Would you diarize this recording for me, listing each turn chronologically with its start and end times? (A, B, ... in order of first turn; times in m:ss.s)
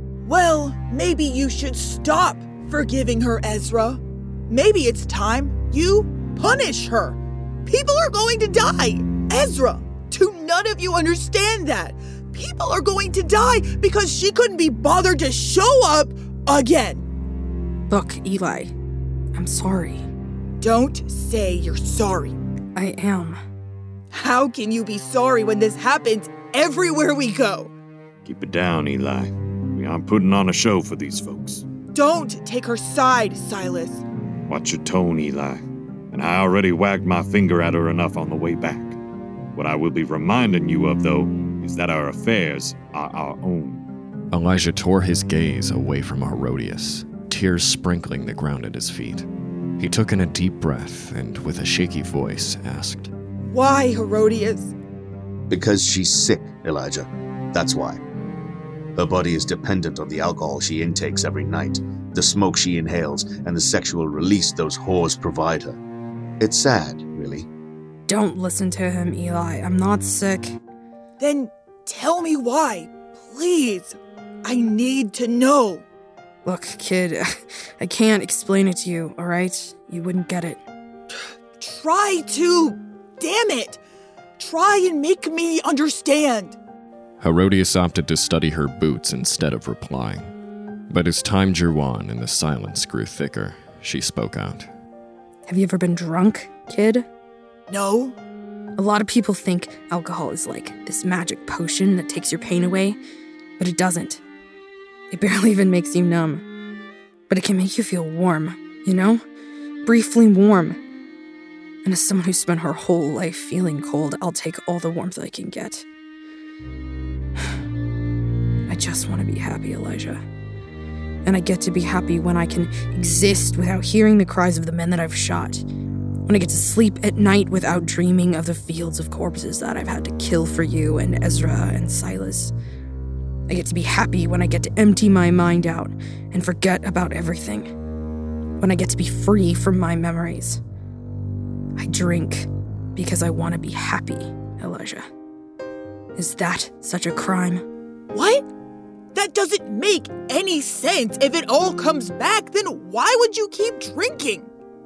0:00.2-0:17.0 A
0:17.9-0:18.7 B
0:19.3-0:20.1 B
0:20.6-0:22.4 A
0:22.8-0:23.4 B
0:24.1-0:27.7 A
0:28.3-0:31.6 C
0:31.9-0:34.0 A
0:34.5-0:39.0 C
0:39.6-0:43.8 C
0:44.3-0:49.3 D
0:49.8-0:53.1 D
0:53.5-0:54.7 A
0:55.5-0:58.0 E
0:59.0-1:05.8 E
1:06.4-1:07.5 E
1:08.1-1:10.6 B
1:11.2-1:15.8 A
1:16.4-1:17.3 B
1:17.8-1:20.6 B
1:21.1-1:23.8 A
1:24.4-1:26.6 A
1:27.2-1:30.3 D
1:30.9-1:34.7 D
1:35.4-1:37.1 B
1:37.7-1:38.2 A
1:38.8-1:43.0 B
1:43.6-1:44.2 B
1:45.1-1:46.4 B
1:47.3-1:49.2 B
1:49.8-1:50.8 B
1:51.8-1:55.8 B
1:58.7-2:00.2 B
2:01.2-2:05.6 B
2:06.3-2:12.5 B
2:13.5-2:17.7 B
2:18.6-2:20.6 B
2:21.8-2:25.0 B
2:26.2-2:27.6 B
2:28.1-2:28.4 A
2:29.1-2:34.5 A